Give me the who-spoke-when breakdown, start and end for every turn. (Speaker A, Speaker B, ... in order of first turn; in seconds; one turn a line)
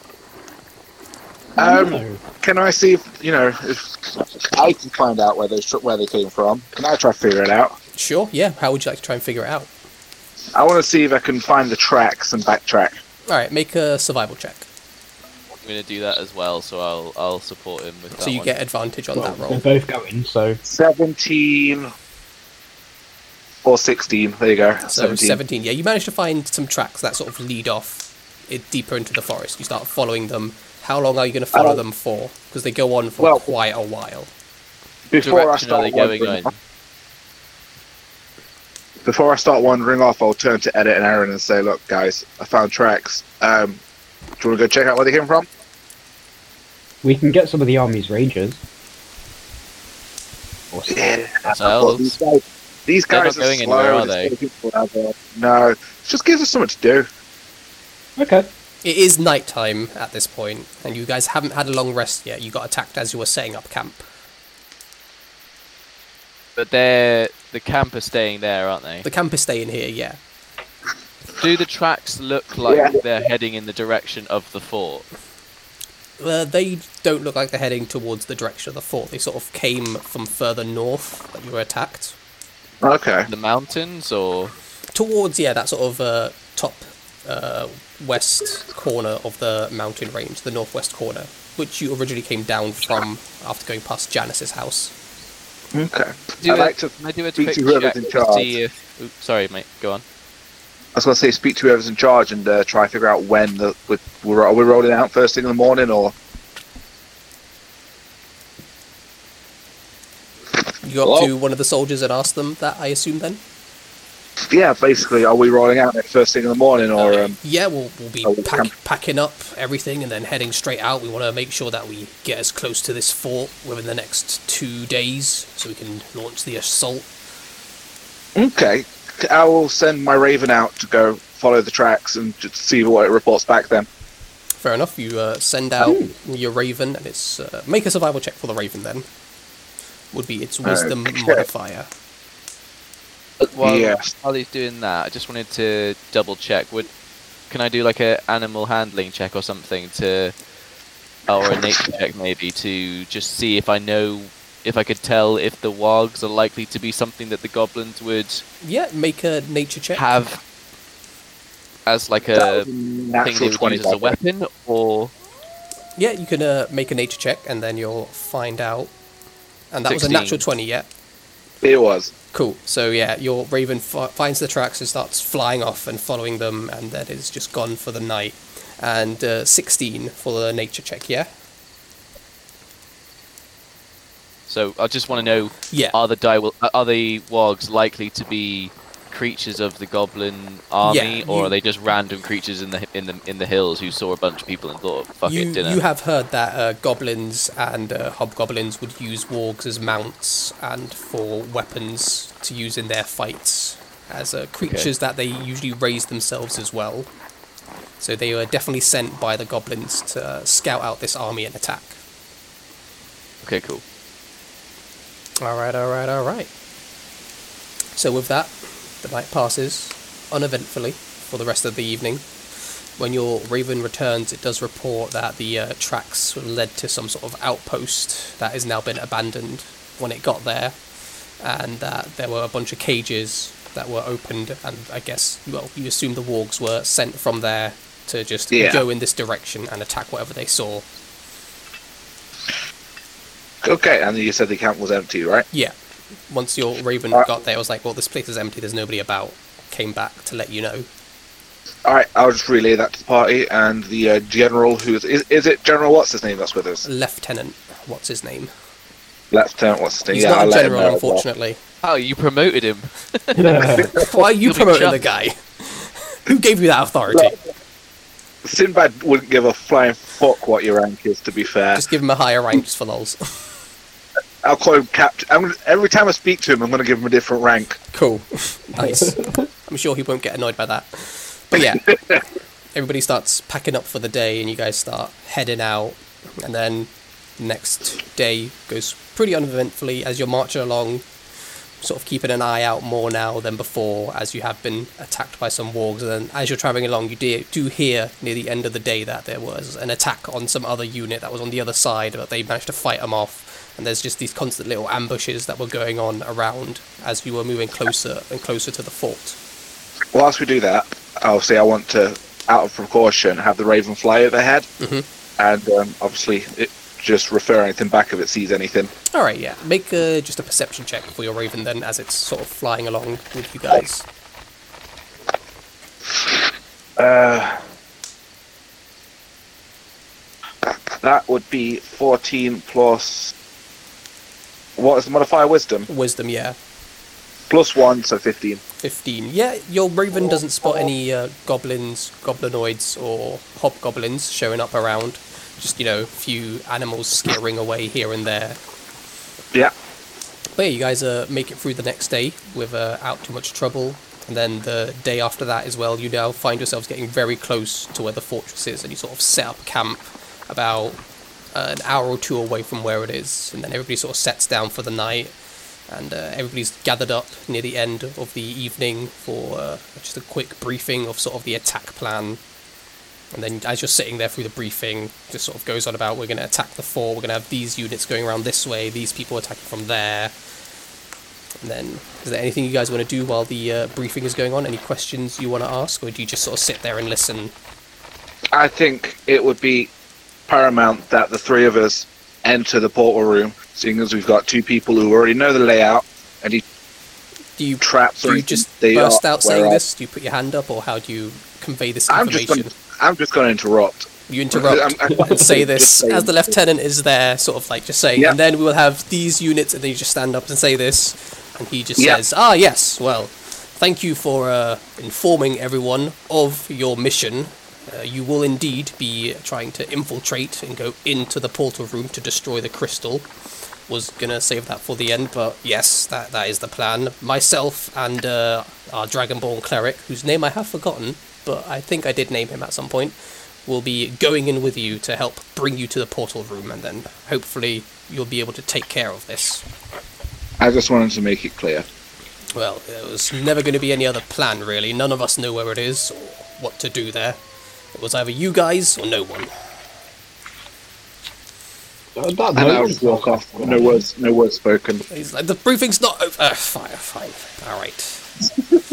Speaker A: 1.6-7.8
Speaker B: 1.6-2.2
Speaker C: 8.0-9.7
Speaker A: 10.6-13.0
Speaker C: 13.3-14.7
Speaker D: 15.6-18.5
Speaker C: 18.2-19.6
Speaker B: 19.2-20.6
Speaker A: 20.6-21.9
Speaker A: 23.6-25.4
Speaker C: 24.9-34.3
Speaker A: 31.5-31.8
Speaker A: 33.2-33.5
Speaker A: 35.1-36.5
Speaker D: 35.2-36.5
Speaker A: 39.0-43.8
Speaker A: 44.4-45.5
Speaker B: 47.0-48.6
Speaker A: 50.9-57.1
Speaker D: 51.5-52.1
Speaker D: 53.1-54.3
Speaker B: 58.2-58.5
Speaker C: 58.8-64.0
Speaker D: 66.6-69.1
Speaker C: 69.0-70.2
Speaker D: 71.4-75.0
Speaker A: 72.7-73.0
Speaker C: 76.2-82.2
Speaker A: 82.8-83.3
Speaker D: 83.3-84.5
Speaker C: 84.9-94.9
Speaker A: 95.7-98.5
Speaker D: 96.4-100.0
Speaker A: 101.0-106.1
Speaker C: 110.8-113.4
Speaker A: 111.0-111.3
Speaker A: 114.5-117.4
Speaker C: 117.3-127.1
Speaker A: 118.2-118.7
Speaker A: 128.4-133.9
Speaker C: 134.6-139.1
Speaker B: 135.8-136.1
Speaker C: 140.1-141.9
Speaker A: 140.6-141.5
Speaker D: 143.4-146.9
Speaker A: 143.6-144.1
Speaker D: 147.5-150.3
Speaker D: 151.3-158.4
Speaker C: 158.6-160.0
Speaker D: 160.0-160.4
Speaker D: 161.9-162.7
Speaker A: 162.3-164.2
Speaker D: 163.2-165.1
Speaker C: 166.0-168.9
Speaker C: 169.7-170.9
Speaker D: 169.9-170.4
Speaker A: 171.6-172.1
Speaker C: 172.3-181.3
Speaker D: 184.5-195.8
Speaker C: 185.7-186.0
Speaker C: 190.8-191.5
Speaker C: 195.3-207.1
Speaker D: 204.6-204.9
Speaker C: 208.0-212.0
Speaker D: 213.4-213.8
Speaker C: 215.4-216.5
Speaker C: 218.0-222.3
Speaker C: 223.0-230.8
Speaker C: 231.4-240.9
Speaker A: 238.5-238.8
Speaker A: 243.6-245.5
Speaker C: 246.3-250.9
Speaker A: 251.8-256.9
Speaker C: 256.8-258.5
Speaker A: 259.3-261.2
Speaker C: 260.1-261.6
Speaker D: 261.8-263.7
Speaker B: 263.4-263.9
Speaker C: 263.9-267.4
Speaker D: 264.4-265.0
Speaker A: 268.4-271.9
Speaker C: 271.8-273.6
Speaker A: 274.4-277.8
Speaker C: 277.9-282.0
Speaker B: 278.8-279.4
Speaker C: 282.7-291.1
Speaker C: 291.8-309.4
Speaker A: 310.1-314.7
Speaker C: 314.8-315.1
Speaker A: 315.4-318.9
Speaker C: 319.1-324.1
Speaker A: 327.0-327.6
Speaker A: 330.6-333.3
Speaker A: 334.8-335.9
Speaker C: 335.9-336.6
Speaker A: 337.5-338.6
Speaker C: 338.8-348.6
Speaker C: 350.6-361.0
Speaker C: 361.5-365.3
Speaker C: 365.9-372.4
Speaker C: 373.3-380.4
Speaker C: 381.6-387.5
Speaker A: 388.5-389.9
Speaker A: 390.5-396.6
Speaker C: 397.6-402.7
Speaker A: 397.8-399.8
Speaker A: 402.1-406.3
Speaker C: 404.3-423.3
Speaker A: 412.0-412.2
Speaker C: 423.9-439.6
Speaker A: 440.6-441.9
Speaker C: 442.5-447.4
Speaker C: 447.9-449.5
Speaker B: 452.2-454.0
Speaker A: 452.5-455.1
Speaker C: 455.1-458.3